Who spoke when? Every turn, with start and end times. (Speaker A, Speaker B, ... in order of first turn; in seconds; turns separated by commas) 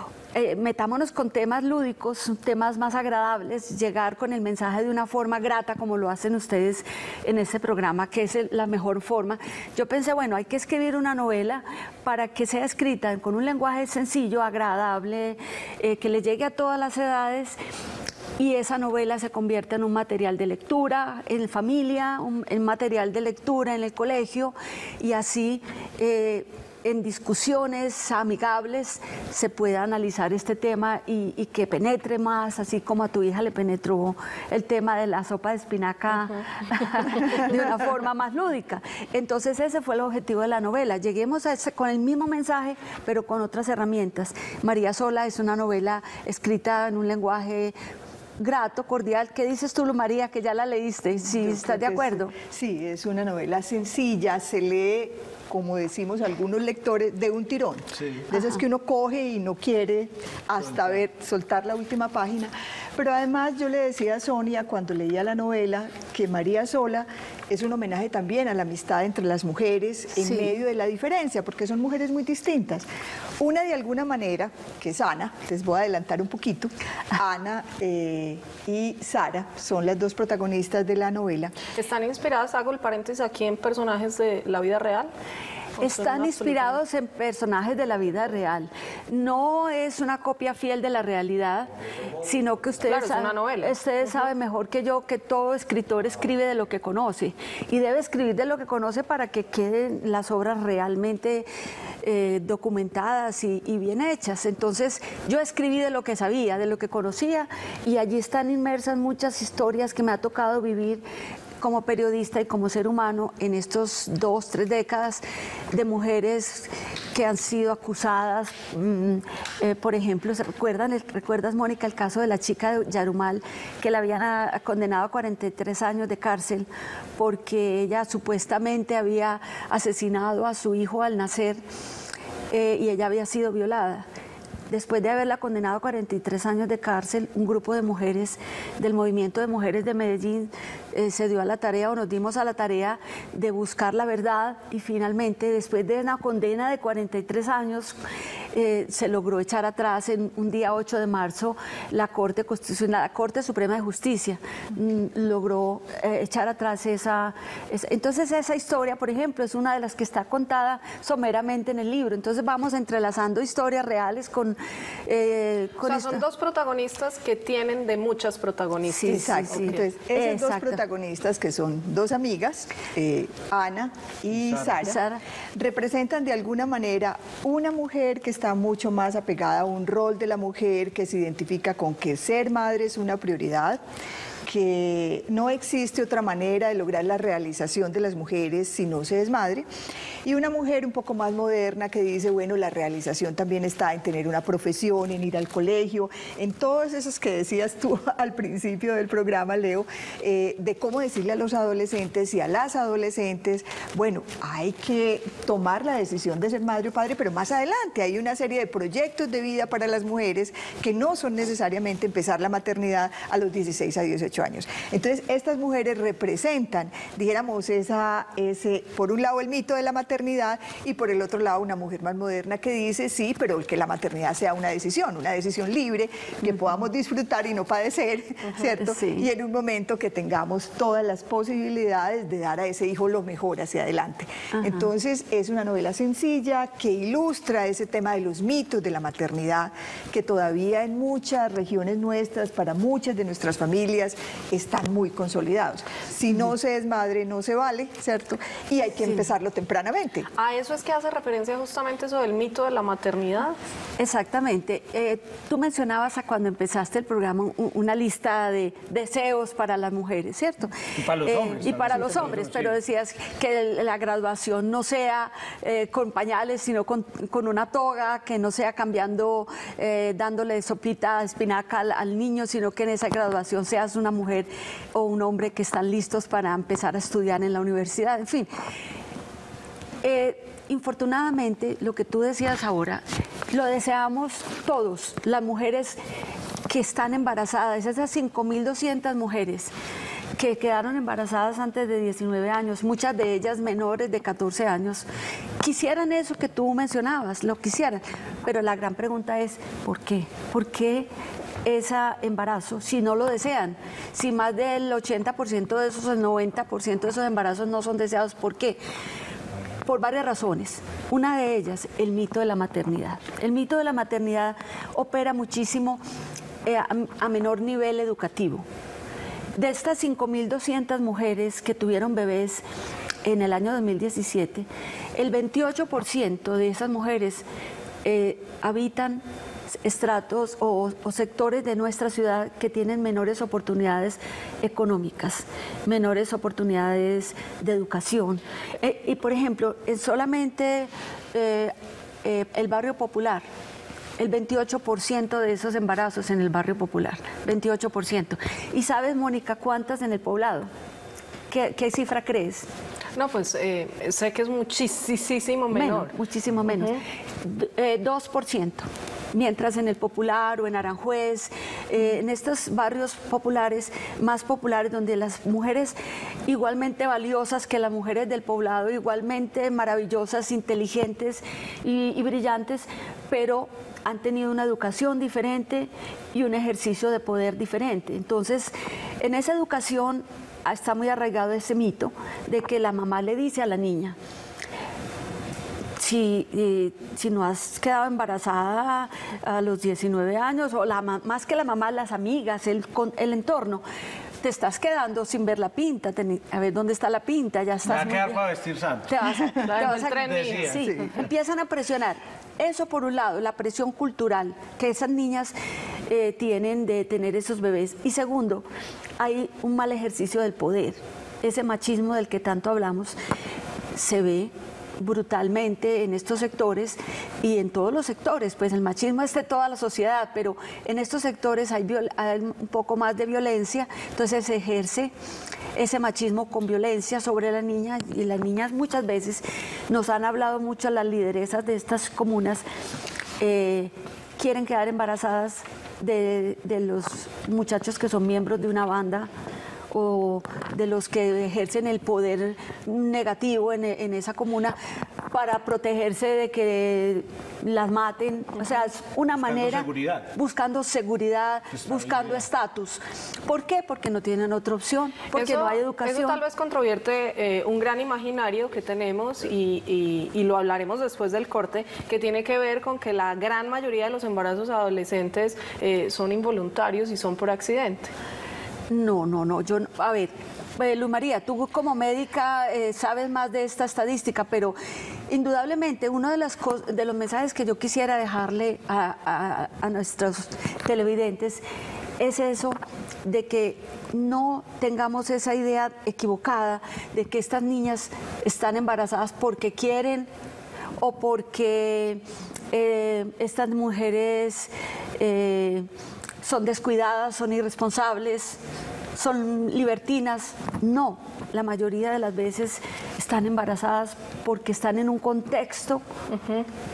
Speaker A: 0.3-17.6, Speaker A: 18.4-47.7, Speaker A: 48.4-52.3, Speaker B: 51.3-72.9, Speaker C: 58.0-58.2, Speaker A: 70.2-70.5, Speaker B: 73.4-81.5, Speaker D: 81.8-85.1, Speaker D: 85.8-86.8, Speaker A: 85.8-101.5, Speaker D: 92.9-94.3, Speaker A: 102.0-111.0, Speaker A: 111.6-131.6, Speaker A: 132.5-134.1, Speaker A: 134.7-147.9, Speaker A: 148.5-166.2, Speaker D: 165.8-169.8, Speaker A: 168.8-170.8, Speaker B: 169.0-175.0, Speaker C: 174.4-174.7, Speaker A: 174.8-175.2, Speaker B: 175.5-183.8, Speaker B: 184.4-189.7, Speaker B: 190.2-250.2, Speaker A: 228.8-229.3, Speaker A: 234.5-234.9, Speaker D: 250.4-253.6, Speaker A: 254.0-278.5, Speaker C: 261.0-262.8, Speaker A: 280.0-286.0, Speaker A: 286.6-289.7, Speaker A: 290.4-295.1, Speaker A: 295.6-301.1, Speaker A: 301.6-308.8, Speaker A: 309.8-316.0, Speaker A: 316.6-318.6, Speaker A: 319.5-322.6, Speaker A: 323.2-327.4, Speaker A: 328.0-329.2, Speaker A: 329.8-343.4, Speaker A: 344.2-350.7, Speaker A: 351.5-352.7, Speaker D: 353.1-356.1, Speaker A: 355.7-365.9, Speaker D: 356.7-357.0, Speaker A: 366.5-384.2, Speaker A: 386.0-393.8, Speaker A: 394.4-398.4, Speaker C: 397.9-399.1, Speaker A: 399.1-405.5, Speaker D: 399.6-400.7, Speaker C: 400.0-400.9, Speaker B: 400.8-401.1, Speaker A: 406.1-408.7, Speaker A: 409.2-413.2, Speaker A: 413.9-425.1, Speaker A: 425.7-432.6, Speaker A: 433.4-439.3, Speaker A: 439.9-444.8, Speaker A: 445.3-456.4, Speaker C: 449.4-450.3, Speaker C: 451.7-452.4, Speaker D: 455.3-468.1, Speaker A: 468.9-474.8, Speaker A: 475.3-481.6, Speaker A: 482.2-490.3, Speaker A: 491.0-495.9, Speaker A: 496.4-498.6, Speaker A: 499.1-506.0, Speaker D: 506.3-506.7